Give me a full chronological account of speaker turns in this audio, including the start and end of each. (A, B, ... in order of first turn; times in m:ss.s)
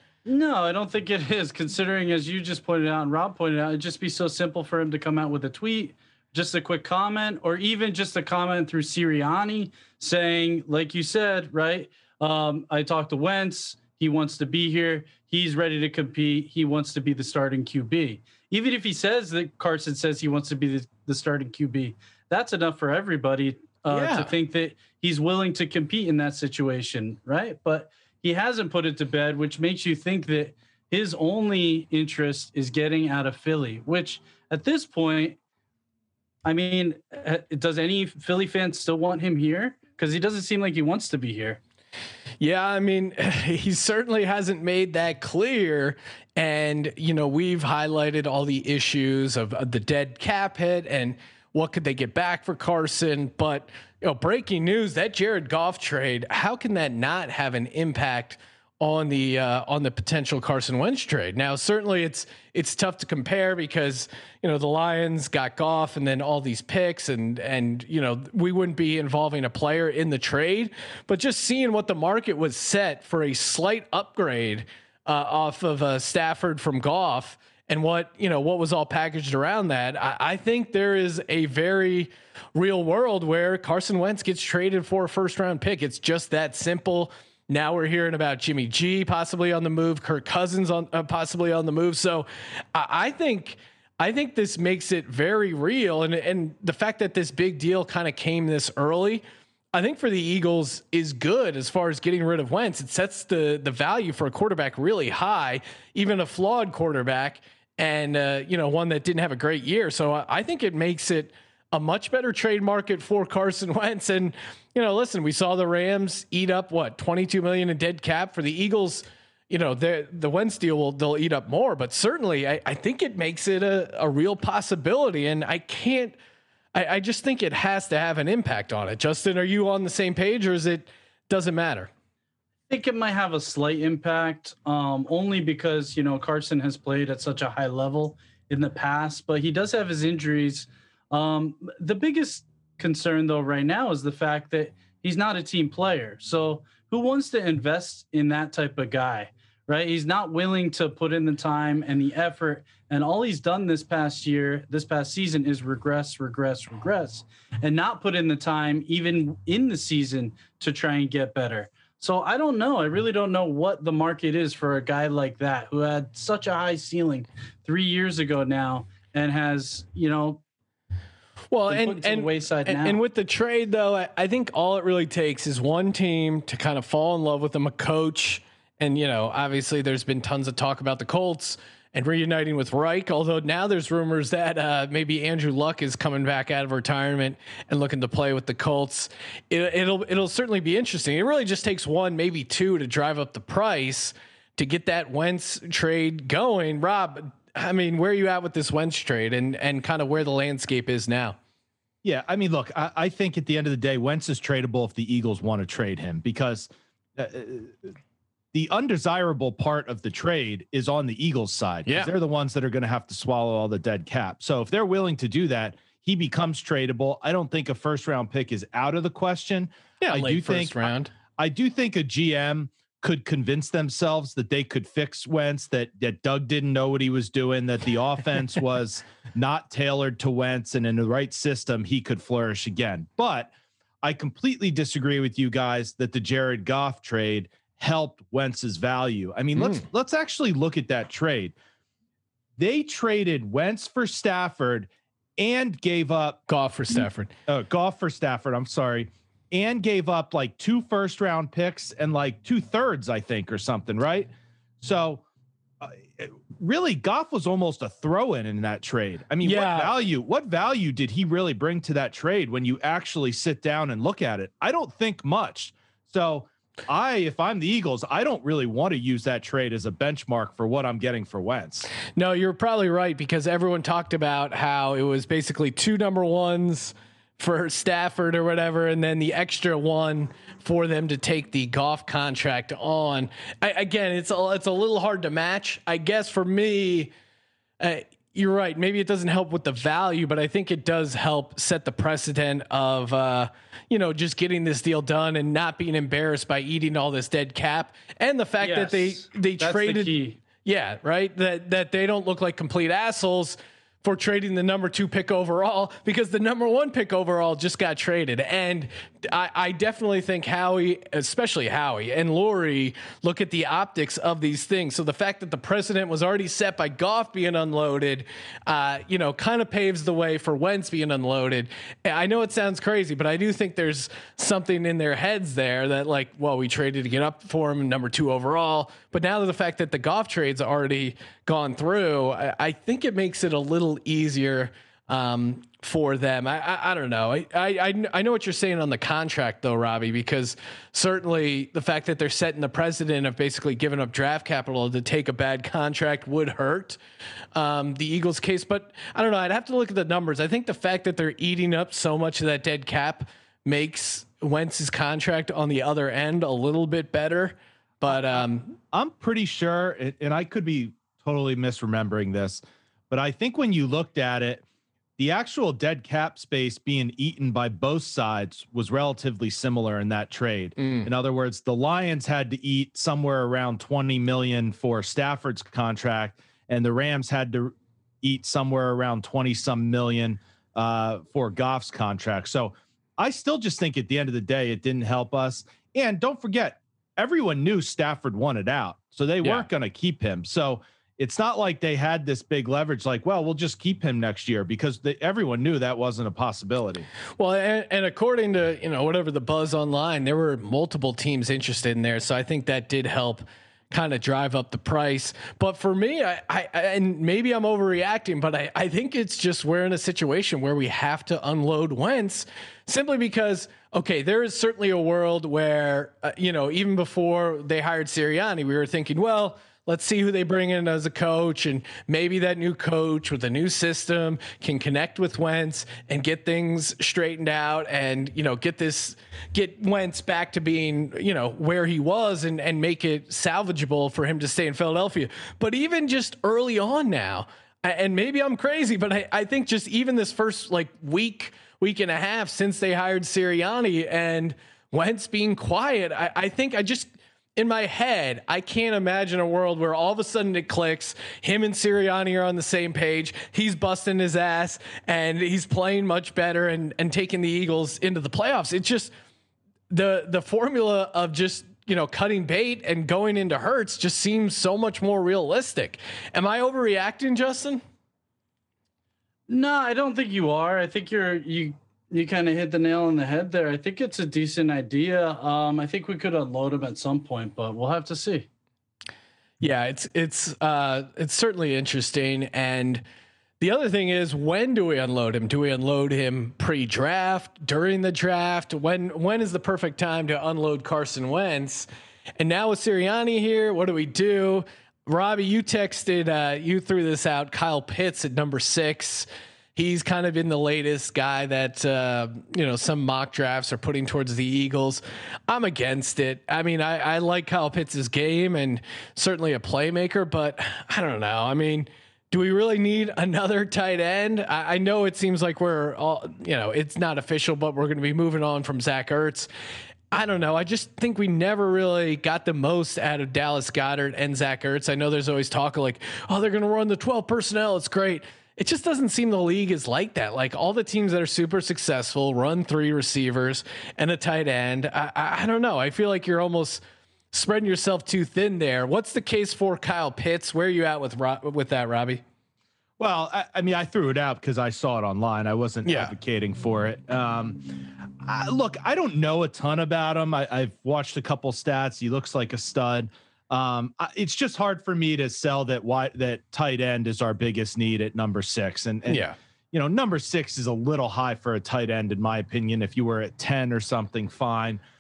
0:00.3-0:35.4 A
0:23.9-0:24.3 B
0:36.4-0:41.6 A
0:42.4-1:39.2 B
1:39.7-2:06.2 B
2:06.7-2:11.9 B
2:12.7-2:50.4 A
2:51.5-3:21.4 B
2:51.7-2:53.0 A
3:22.0-3:27.9 C
3:28.5-3:53.5 C
3:31.9-3:32.1 B
3:40.0-3:41.1 B
3:54.0-4:01.6 C
3:59.6-3:59.8 B
4:02.6-4:06.4 C
4:06.5-4:07.3 B
4:07.5-4:15.2 C
4:15.8-4:31.9 C
4:19.4-4:20.0 B
4:32.2-4:47.1 B
4:47.8-5:47.0 B
4:58.6-5:00.4 A
5:47.6-5:58.7 B
5:58.1-6:04.6 C
6:05.2-6:37.1 C
6:10.8-6:11.1 B
6:37.4-7:39.1 B
7:39.9-7:47.8 B
7:49.5-7:58.5 A
7:59.6-8:03.0 B
8:03.6-8:11.9 B
8:12.4-8:39.5 B
8:40.1-8:56.8 B
8:57.3-9:02.2 B
9:03.0-9:24.8 C
9:05.9-9:06.1 B
9:19.1-9:19.4 B